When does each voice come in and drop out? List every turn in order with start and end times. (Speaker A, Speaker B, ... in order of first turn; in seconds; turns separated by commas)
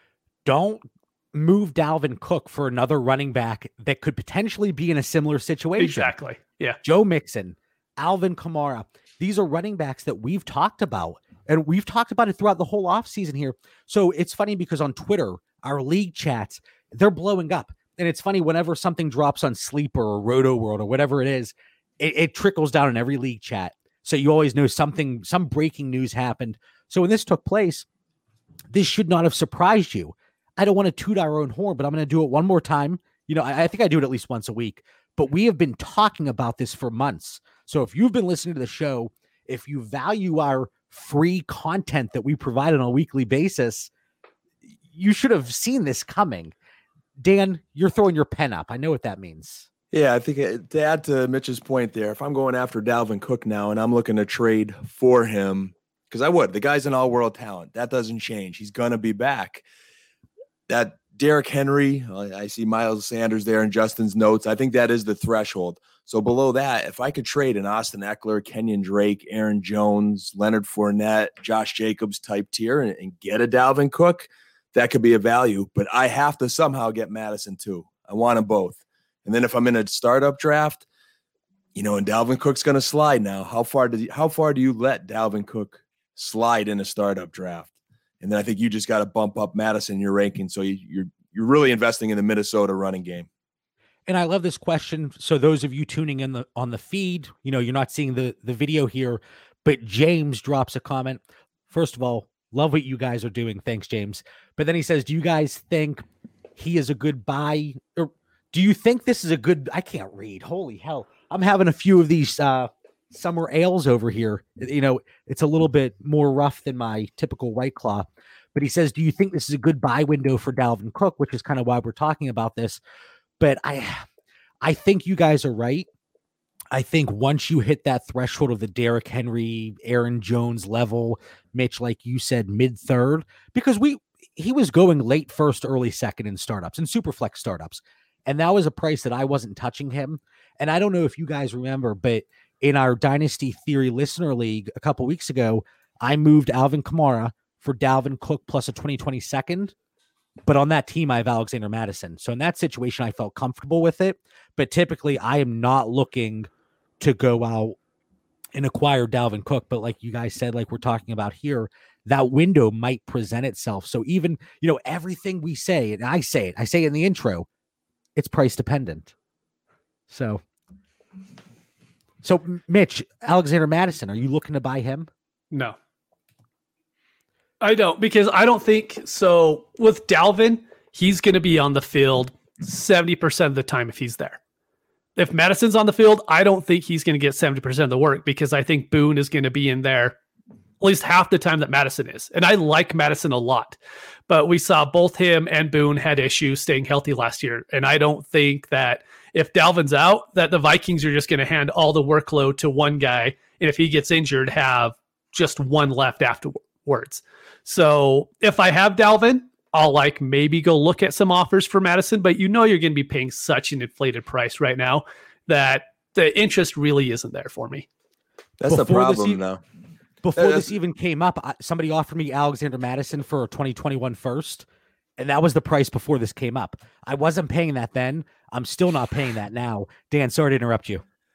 Speaker A: 0.5-6.1, Speaker B: 5.8-6.8, Speaker A: 6.8-27.9, Speaker A: 28.7-43.9, Speaker A: 44.9-46.5, Speaker A: 47.2-49.7, Speaker C: 49.9-59.6, Speaker C: 60.7-80.8, Speaker C: 81.8-93.3, Speaker A: 94.1-106.0, Speaker A: 106.6-122.8, Speaker A: 123.4-124.0, Speaker A: 124.6-125.9, Speaker A: 126.7-149.7, Speaker A: 150.5-156.5, Speaker A: 157.0-157.8, Speaker A: 158.6-167.5, Speaker A: 168.2-169.1, Speaker A: 170.1-170.4, Speaker A: 172.2-175.1, Speaker B: 175.5-175.8, Speaker B: 177.6-184.4, Speaker B: 185.2-190.2, Speaker B: 190.8-193.8, Speaker B: 194.3-217.9, Speaker C: 218.6-219.6, Speaker A: 218.7-219.4, Speaker A: 220.2-224.7, Speaker C: 220.4-220.7, Speaker A: 225.2-231.0